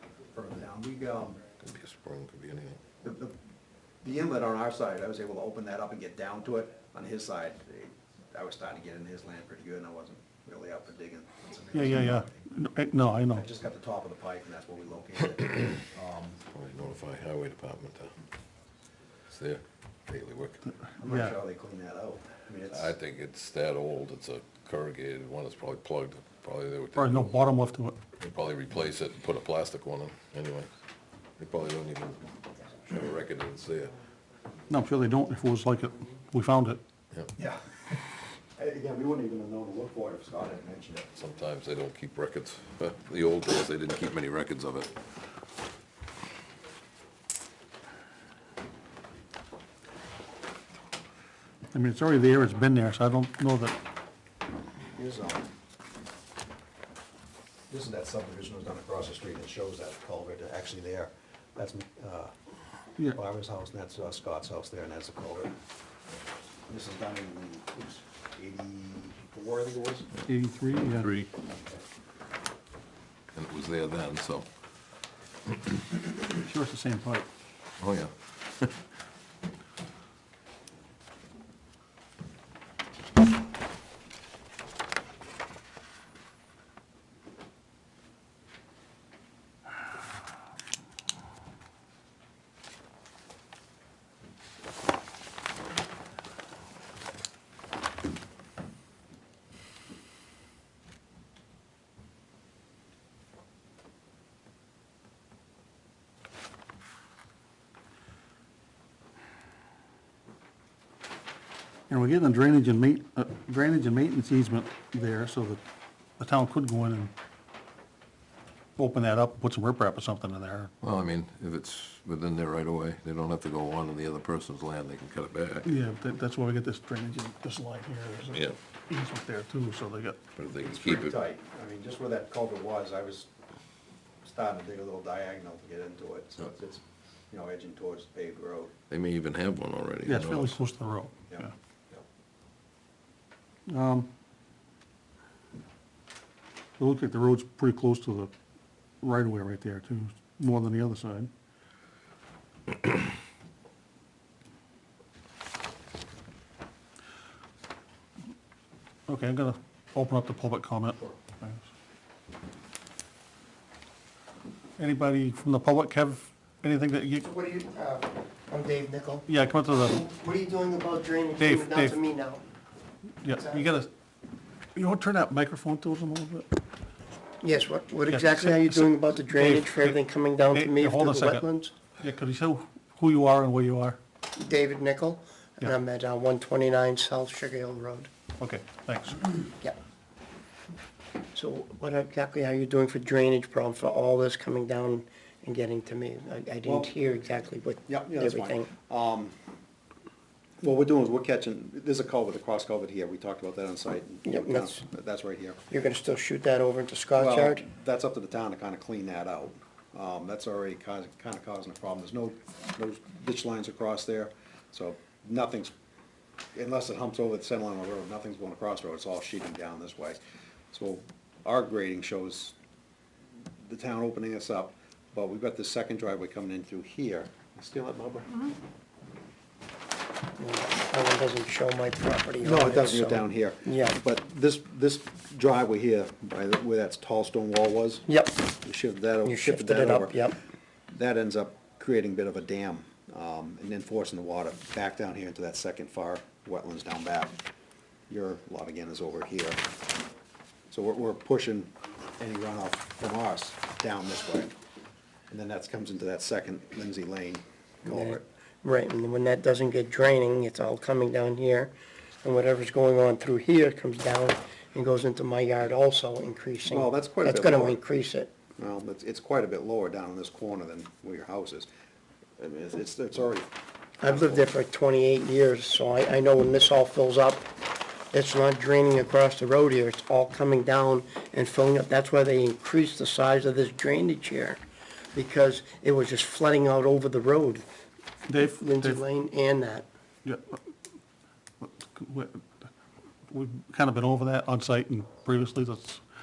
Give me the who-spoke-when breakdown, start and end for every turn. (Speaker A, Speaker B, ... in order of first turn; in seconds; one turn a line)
Speaker A: 0.3-1.4
Speaker B: 1.6-2.8
Speaker A: 3.0-3.4
Speaker A: 4.0-12.5
Speaker C: 11.8-13.4
Speaker A: 13.3-16.4
Speaker B: 16.5-18.1
Speaker B: 19.3-20.7
Speaker A: 21.0-22.9
Speaker C: 21.1-21.3
Speaker B: 22.7-27.3
Speaker C: 27.0-28.0
Speaker B: 28.2-30.7
Speaker B: 31.4-32.2
Speaker B: 32.9-34.0
Speaker C: 34.7-36.8
Speaker A: 37.4-38.0
Speaker A: 38.6-41.1
Speaker B: 41.1-44.9
Speaker C: 51.7-53.8
Speaker A: 54.9-55.5
Speaker A: 57.7-62.3
Speaker A: 63.1-65.6
Speaker A: 66.7-70.1
Speaker C: 70.3-71.2
Speaker A: 71.4-71.8
Speaker B: 73.3-74.5
Speaker C: 76.3-77.3
Speaker B: 77.8-78.8
Speaker C: 111.9-115.6
Speaker C: 116.2-117.1
Speaker C: 118.8-120.7
Speaker B: 120.8-125.7
Speaker C: 125.7-130.2
Speaker B: 130.3-131.2
Speaker A: 130.6-133.3
Speaker A: 134.2-138.8
Speaker B: 138.9-140.6
Speaker C: 140.1-141.5
Speaker A: 141.3-142.0
Speaker C: 143.7-144.1
Speaker C: 146.8-148.3
Speaker C: 149.0-151.3
Speaker C: 159.1-161.6
Speaker C: 164.8-167.3
Speaker D: 167.2-169.3
Speaker C: 169.3-170.0
Speaker D: 169.9-172.4
Speaker C: 171.4-172.0
Speaker C: 173.2-173.9
Speaker D: 173.3-173.6
Speaker C: 174.8-176.5
Speaker D: 177.4-181.7
Speaker C: 178.1-180.0
Speaker C: 180.5-184.0
Speaker D: 184.4-188.1
Speaker C: 188.4-189.3
Speaker D: 191.3-198.7
Speaker A: 196.7-196.9
Speaker A: 197.9-199.4
Speaker A: 200.6-205.6
Speaker D: 204.2-204.8
Speaker D: 205.7-207.6
Speaker A: 207.2-215.7
Speaker A: 216.6-220.2
Speaker A: 220.7-222.6
Speaker A: 223.6-228.5
Speaker D: 230.4-234.0
Speaker A: 232.4-240.2
Speaker D: 238.1-238.4
Speaker D: 239.2-240.4
Speaker A: 240.9-247.3
Speaker A: 248.1-249.6
Speaker A: 250.7-254.6
Speaker A: 255.3-258.2
Speaker D: 257.9-268.3
Speaker A: 266.7-267.8
Speaker A: 268.6-271.7
Speaker A: 272.4-273.5
Speaker D: 274.0-277.5
Speaker A: 274.0-274.5
Speaker D: 278.1-284.6
Speaker D: 285.1-287.7
Speaker C: 288.3-289.0
Speaker D: 288.6-289.9
Speaker C: 290.2-290.6
Speaker C: 291.6-292.7
Speaker C: 293.3-296.0